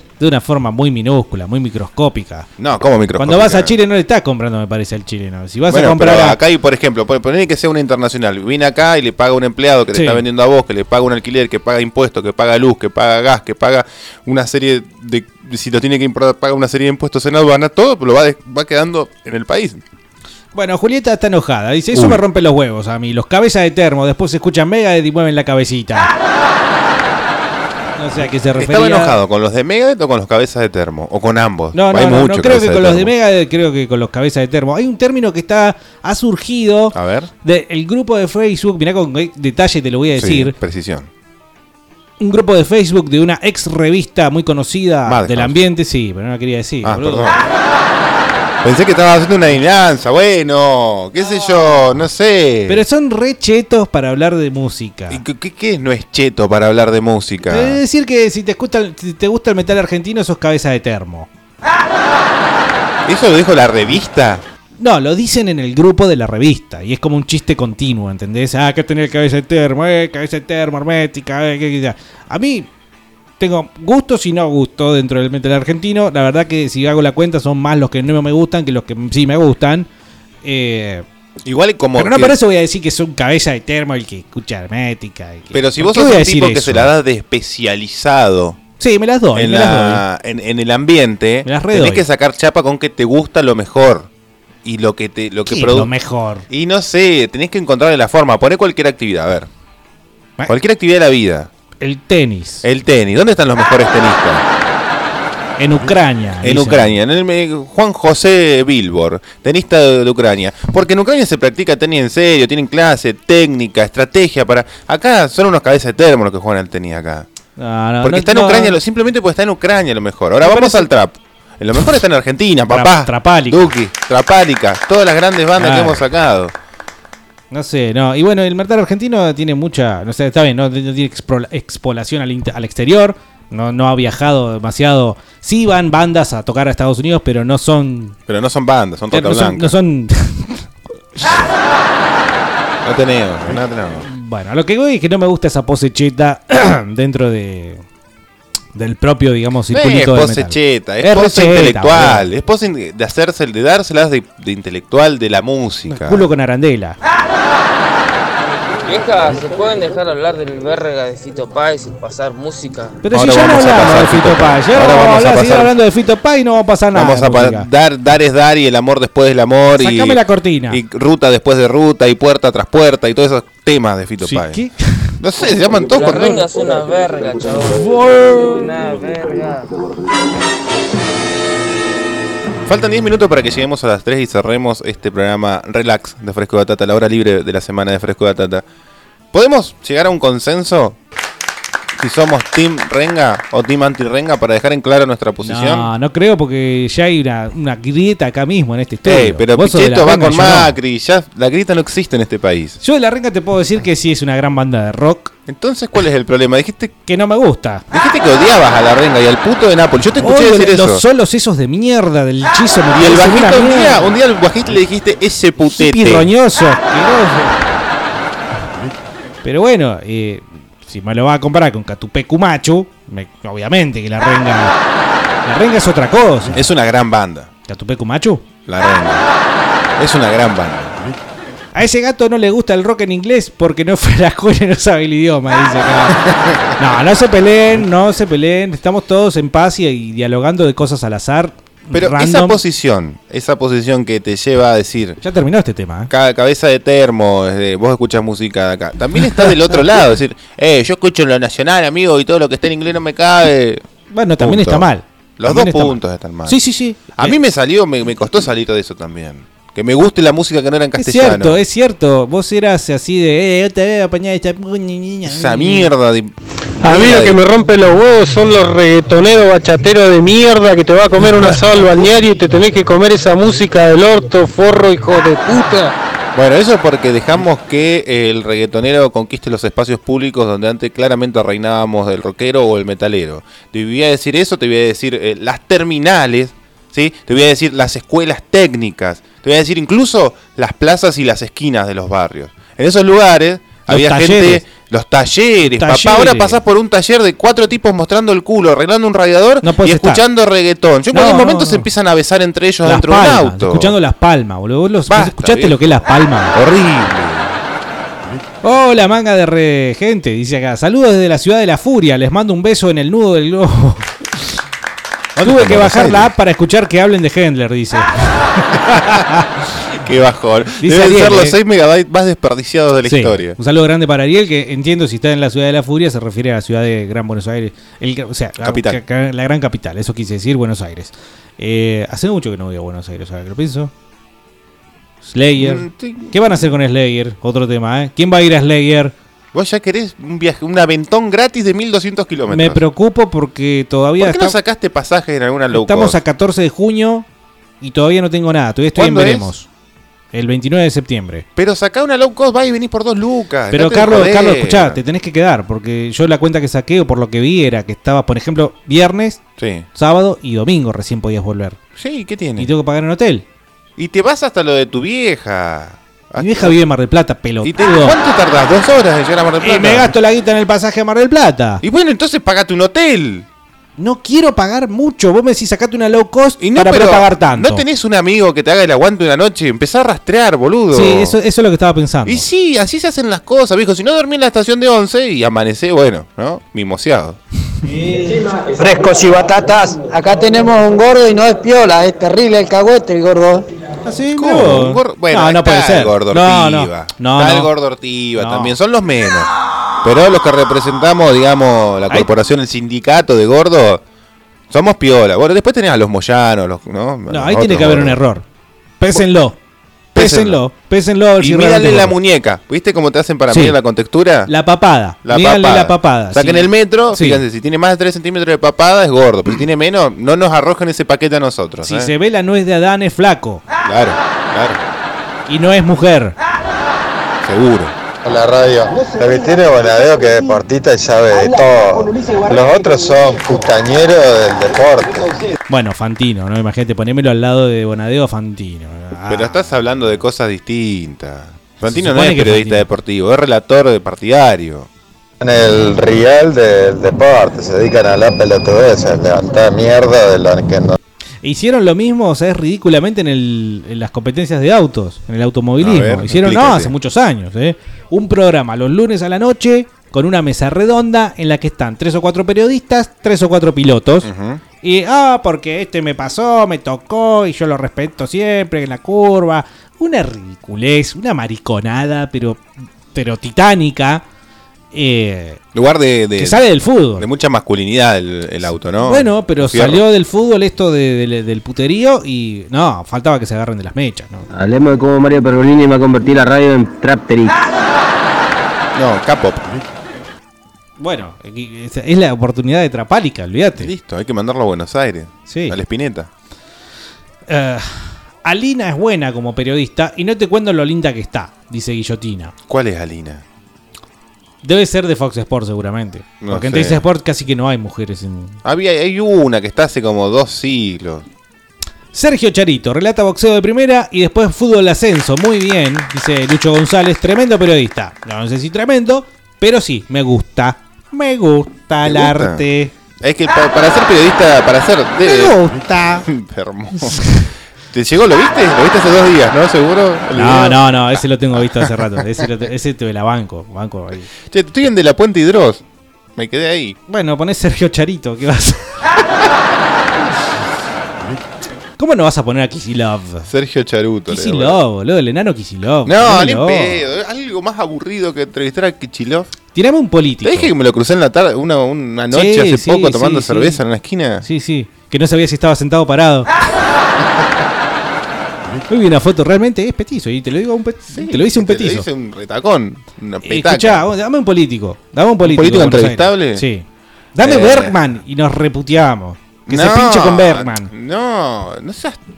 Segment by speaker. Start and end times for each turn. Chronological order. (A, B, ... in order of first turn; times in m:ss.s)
0:00.2-0:02.5 A
0:02.6-0:03.7 B
0:03.2-0:06.4 A
0:05.7-0:19.8 B
0:09.9-0:10.2 A
0:20.5-0:26.1 A
0:21.9-0:22.2 B
0:28.0-0:29.2 A
0:28.6-0:33.1 B
0:31.7-0:40.5 A
0:36.9-0:37.3 B
0:40.1-0:41.1 B
0:42.2-0:47.3 A
0:45.0-0:45.6 B
0:46.8-0:47.4 B
0:48.6-0:52.8 B
0:52.7-0:55.2 A
0:55.1-0:57.8 B
0:57.5-1:01.3 A
1:03.0-1:04.4 B
1:04.8-1:12.7 A
1:13.4-1:19.9 A
1:20.4-1:21.0 A
1:21.4-1:22.4 B
1:22.0-1:26.9 A
1:25.5-1:28.6 B
1:28.8-1:30.0 A
1:29.3-1:34.1 B
1:31.4-1:32.0 A
1:34.6-1:35.9 B
1:35.4-1:36.4 A
1:36.5-1:39.5 B
1:40.5-1:41.5 B
1:41.8-1:42.6 A
1:42.6-1:44.4 B
1:45.6-1:47.0 A
1:46.4-1:57.3 B
1:57.6-1:58.8 A
1:58.0-2:06.5 B
2:00.4-2:00.9 A
2:02.7-2:03.7 A
2:05.6-2:06.0 A
2:07.5-2:18.2 A
2:18.3-2:19.7 B
2:19.1-2:21.3 A
2:21.3-2:21.5 B
2:22.8-2:24.0 B
2:24.0-2:27.8 A
2:28.7-2:32.3 A
2:29.7-2:36.3 B
2:35.9-2:37.0 A
2:38.8-2:43.0 C
2:43.0-2:47.7 A
2:43.1-2:45.7 B
2:46.9-2:54.6 B
2:49.7-2:50.8 A
2:54.2-2:55.2 A
2:55.2-2:56.4 B
2:56.0-2:57.6 C
2:56.0-2:56.3 A
2:57.7-2:58.7 A
2:58.6-2:59.6 C
3:02.6-3:08.6 B
3:09.3-3:11.0 B
3:12.0-3:15.9 B
3:15.4-3:20.7 A
3:19.0-3:22.8 B
3:22.8-3:25.3 A
3:25.5-3:26.9 B
3:27.0-3:27.8 A
3:27.9-3:31.0 B
3:30.2-3:34.1 A
3:32.9-3:36.3 B
3:35.7-3:37.6 A
3:39.4-3:44.7 A
3:45.4-3:46.7 A
3:46.5-3:47.5 B
3:47.7-3:48.4 A
3:48.7-3:49.2 B
3:50.0-3:50.9 B
3:51.7-3:56.2 A
3:56.1-3:56.7 B
3:56.8-4:02.6 A
4:01.9-4:05.2 B
4:05.2-4:06.1 A
4:06.1-4:13.8 B
4:14.1-4:17.4 A
4:14.4-4:16.6 B
4:17.2-4:21.6 B
4:21.0-4:25.9 A
4:25.2-4:27.4 B
4:26.8-4:35.9 D
4:36.3-5:03.9 B
4:53.9-4:54.6 A
4:55.6-4:56.6 A
4:59.6-5:00.2 A
5:01.1-5:01.9 A
5:02.8-5:06.5 A
5:05.1-5:07.6 B
5:08.6-5:14.2 A
5:15.4-5:19.6 A
5:15.4-5:16.3 B
5:20.0-5:23.6 B
5:20.8-5:21.6 A
5:23.0-5:33.9 A
5:28.6-5:29.0 B
5:35.2-5:39.1 A
5:35.6-5:36.7 B
5:39.5-5:42.8 B
5:42.5-5:44.6 A
5:44.2-5:46.2 B
5:45.7-5:47.2 A
5:47.8-5:49.7 A
5:48.9-5:49.5 B
5:50.3-5:51.4 A
5:51.6-5:55.0 B
5:53.7-5:59.4 A
5:59.6-5:59.9 B
5:59.9-6:01.8 A
6:02.0-6:02.7 B
6:02.6-6:03.4 A
6:04.0-6:06.8 B
6:06.4-6:08.2 A
6:07.6-6:10.1 B
6:09.6-6:11.8 A
6:11.8-6:13.4 B
6:14.0-6:17.8 A
6:16.6-6:21.4 B
6:20.9-6:22.4 A
6:22.2-6:27.4 B
6:28.9-6:32.1 E
6:32.9-6:33.6 E
6:34.0-6:37.7 A
6:34.3-6:39.5 B
6:38.4-6:38.8 A
6:40.0-6:44.0 B
6:44.7-6:48.2 B
6:47.3-6:48.4 A
6:49.0-6:49.6 A
6:50.1-6:52.1 A
6:50.1-6:50.6 B
6:51.4-6:54.5 B
6:53.5-6:53.8 A
6:54.5-6:57.4 A
6:55.2-7:02.1 B
7:01.8-7:03.6 A
7:03.8-7:04.8 B
7:05.5-7:06.4 A
7:07.4-7:07.9 B
7:08.2-7:15.3 F
7:15.7-7:19.7 A
7:19.3-7:24.9 B
7:21.9-7:22.9 A
7:25.4-7:31.0 F
7:31.4-7:44.3 A
7:35.8-7:36.9 B
7:44.2-7:44.6 B
7:44.8-7:54.2 A
7:54.9-7:55.6 A
7:55.7-7:56.6 B
7:56.4-7:57.2 A
7:57.2-8:00.0 B
7:59.0-8:04.4 A
8:04.8-8:05.4 G
8:06.0-8:07.5 G
8:08.9-8:09.6 B
8:11.0-8:13.9 A
8:13.8-8:16.3 B
8:15.5-8:15.8 A
8:17.5-8:22.5 A
8:22.7-8:23.4 B
8:24.6-8:28.6 A
8:26.4-8:27.0 B
8:28.6-8:31.2 B
8:32.1-8:42.9 A
8:42.0-8:42.6 B
8:43.2-8:45.6 B
8:45.2-8:46.2 A
8:46.2-8:47.3 B
8:47.2-8:47.4 A
8:47.9-8:50.8 B
8:50.3-8:54.3 A
8:54.4-8:55.8 B
8:56.4-8:57.0 B
8:57.1-8:59.0 A
9:02.0-9:03.5 A
9:03.4-9:04.8 B
9:04.3-9:07.0 A
9:06.0-9:09.5 B
9:09.7-9:10.7 A
9:10.4-9:14.4 B
9:12.3-9:13.8 A
9:14.4-9:16.5 A
9:17.2-9:17.5 B
9:18.9-9:22.0 A
9:21.1-9:24.1 B
9:23.4-9:30.9 A
9:25.4-9:26.6 B
9:27.4-9:28.0 B
9:29.7-9:32.2 B